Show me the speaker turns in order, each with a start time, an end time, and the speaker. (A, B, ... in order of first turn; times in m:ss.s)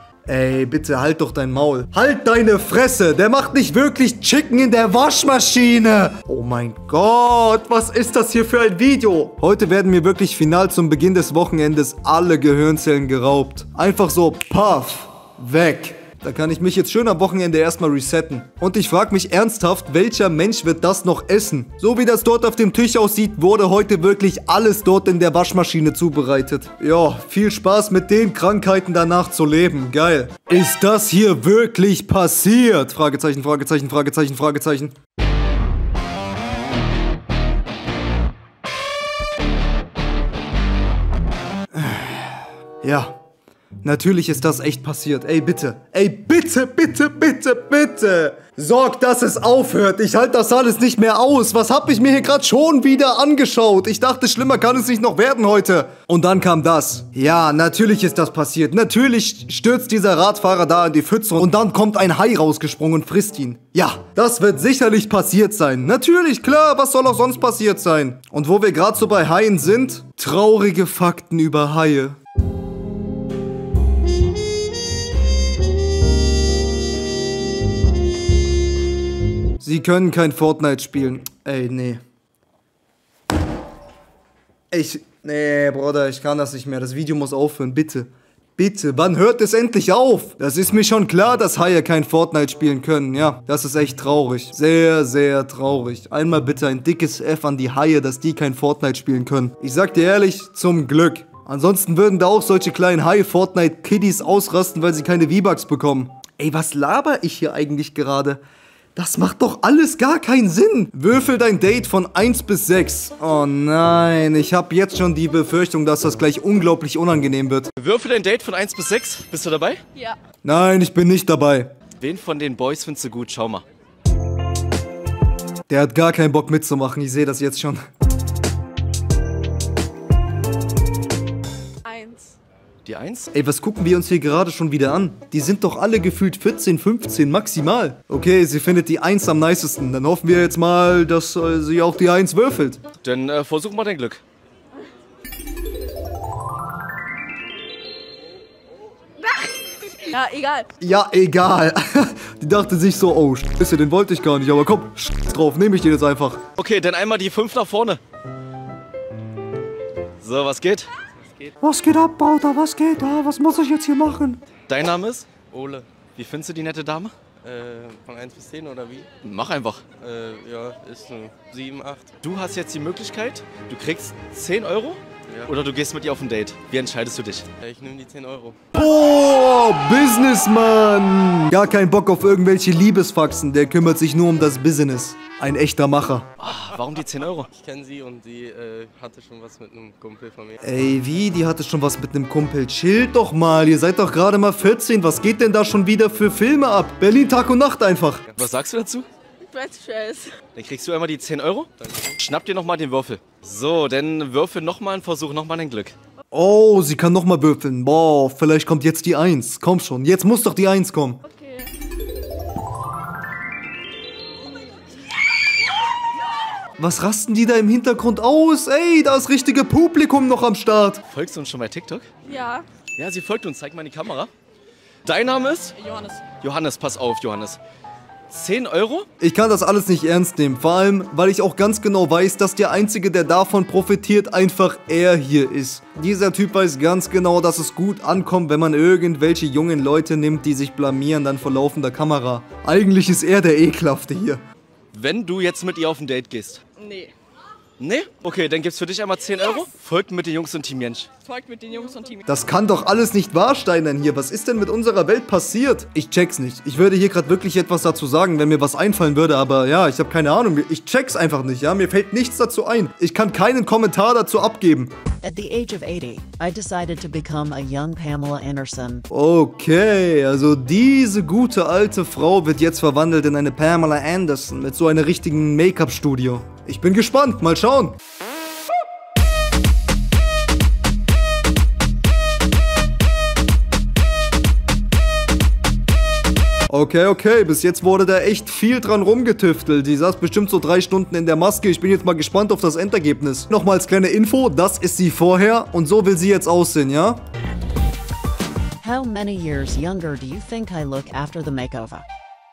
0:00.2-0:34.9 A
0:41.7-0:43.2 A
0:43.8-1:12.2 A
1:19.6-1:22.0 A
1:24.7-1:48.4 A
1:48.9-1:57.7 A
1:57.8-1:59.8 B
2:00.4-2:01.7 A
2:02.0-2:03.6 B
2:05.7-2:07.8 A
2:11.8-2:12.3 C
2:12.8-2:13.3 B
2:13.3-2:22.8 A
2:23.0-2:24.2 B
2:30.0-2:30.6 C
2:30.8-2:36.4 A
2:36.6-2:38.0 B
2:40.2-2:40.9 B
2:41.6-2:44.4 A
2:44.7-2:45.3 B
2:45.4-2:45.9 C
2:46.2-2:47.1 B
2:47.4-2:49.2 C
2:49.2-2:49.8 B
2:50.0-2:52.1 C
2:52.2-2:57.4 B
2:57.6-2:58.6 C
2:58.7-3:06.3 A
3:06.4-3:07.5 B
3:07.5-3:10.6 C
3:10.6-3:18.2 A
3:18.3-3:19.0 B
3:19.5-3:20.3 D
3:20.5-3:25.9 B
3:21.8-3:22.1 C
3:26.3-3:31.2 A
3:36.8-3:41.0 A
3:41.0-3:42.1 B
3:42.3-3:42.6 C
3:42.3-3:42.6 D
3:43.0-3:44.3 B
3:45.0-3:45.8 B
3:46.0-3:46.2 C
3:46.4-3:47.6 B
3:48.3-3:49.0 B
3:49.2-4:04.4 A
4:04.9-4:06.6 B
4:06.8-4:07.1 D
4:07.8-4:11.1 B
4:11.3-4:12.2 D
4:11.4-4:12.2 C
4:12.2-4:24.9 A
4:25.2-4:29.0 E
4:29.1-4:38.0 A
4:46.7-4:57.2 A
4:58.8-5:02.0 E